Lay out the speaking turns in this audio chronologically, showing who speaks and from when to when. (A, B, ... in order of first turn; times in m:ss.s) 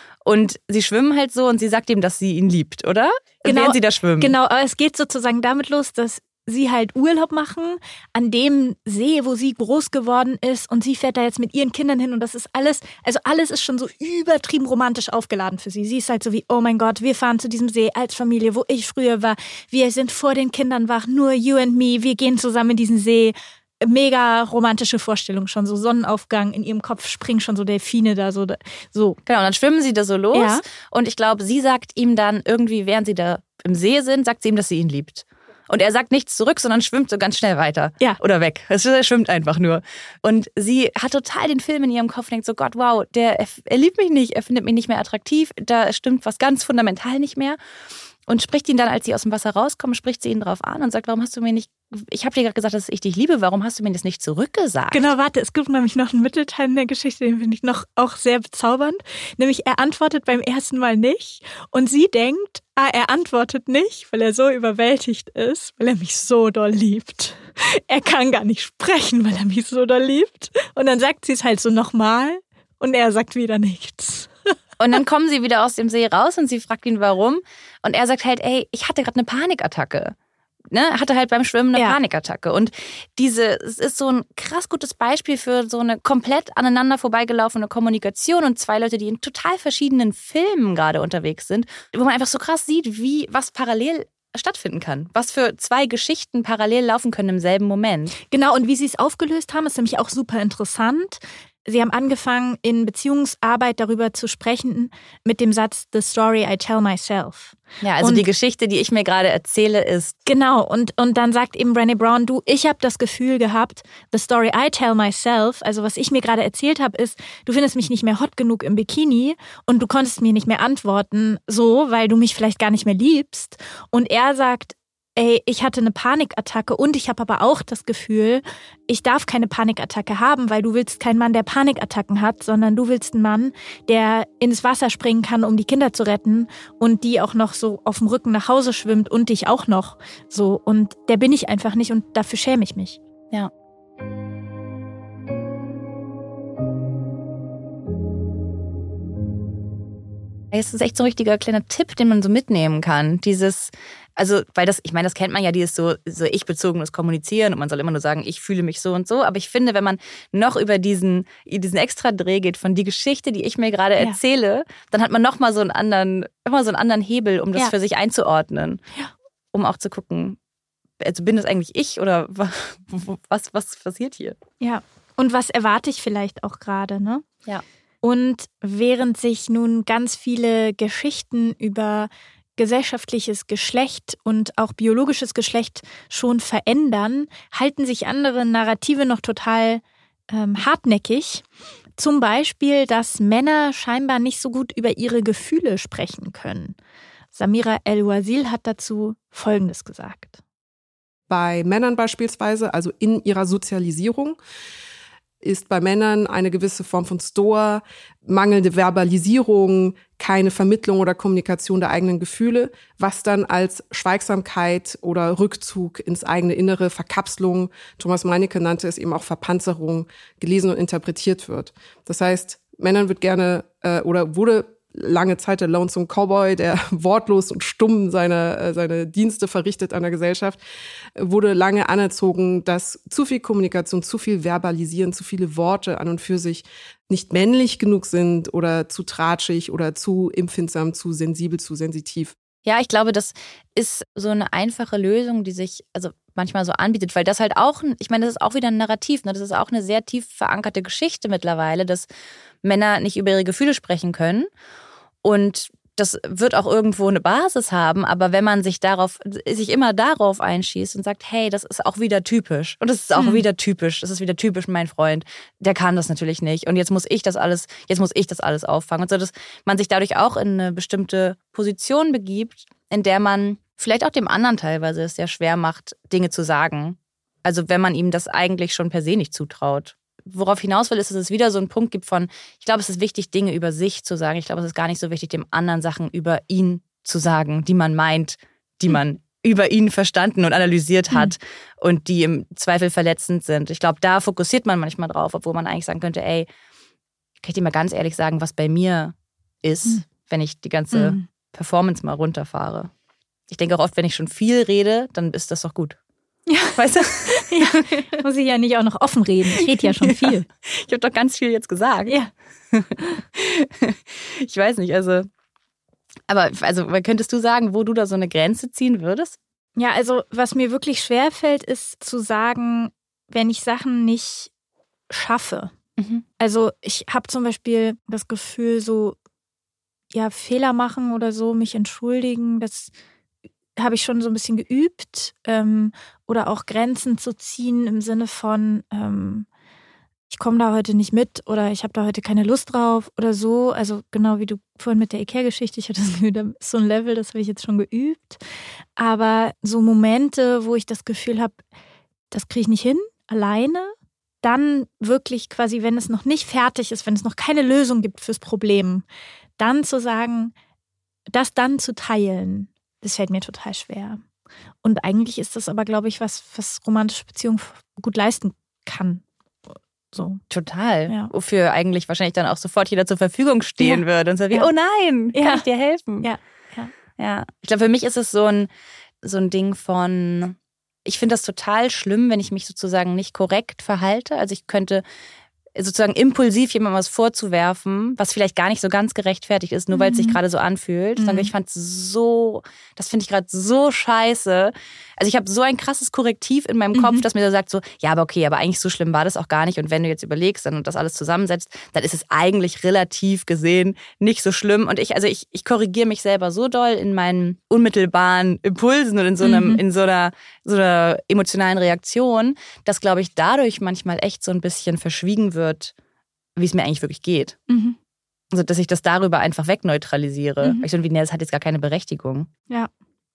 0:00.2-0:04.3 A
0:03.4-0:29.2 B
0:29.3-0:47.6 A
0:30.3-0:30.6 B
0:48.3-0:55.1 A
0:54.9-1:14.3 B
1:14.8-1:20.2 A
1:20.7-1:38.2 A
1:38.3-1:48.2 B
1:47.8-1:50.2 A
1:50.3-2:23.0 B
2:30.5-2:48.8 A
2:49.5-2:50.4 A
2:51.0-2:54.4 A
2:54.6-2:57.2 B
2:58.0-3:11.4 B
3:12.0-3:16.8 B
3:17.3-3:20.4 B
3:21.3-3:24.4 C
3:25.4-3:50.6 C
3:51.2-4:02.4 C
4:02.6-4:12.1 A
4:12.6-4:14.5 A
4:15.2-4:56.5 A
4:23.2-4:23.4 B
4:57.4-5:02.9 A
5:00.9-5:01.3 B
5:03.5-5:06.0 A
5:06.5-5:10.5 B
5:06.8-5:07.9 A
5:09.7-5:12.2 A
5:12.1-5:12.3 B
5:12.7-5:15.3 A
5:16.3-5:19.4 A
5:19.8-5:24.5 B
5:25.1-5:25.7 B
5:26.0-5:26.2 A
5:26.4-5:29.2 B
5:30.1-5:32.9 B
5:33.8-5:39.5 B
5:40.3-5:48.4 B
5:49.0-5:51.6 B
5:52.3-5:59.0 B
5:59.6-6:00.5 B
6:01.3-6:04.2 B
6:04.8-6:09.2 B
6:10.1-6:10.4 B
6:10.5-6:16.3 A
6:13.8-6:14.7 B
6:15.3-6:15.6 B
6:16.2-6:16.9 B
6:17.2-6:18.7 A
6:19.2-6:25.0 A
6:25.8-6:55.9 A
6:29.9-6:30.4 B
6:31.2-6:31.5 B
6:36.9-6:37.2 B
6:49.4-6:49.8 B
6:56.6-6:57.6 A
6:57.7-6:58.0 B
6:58.5-7:02.5 A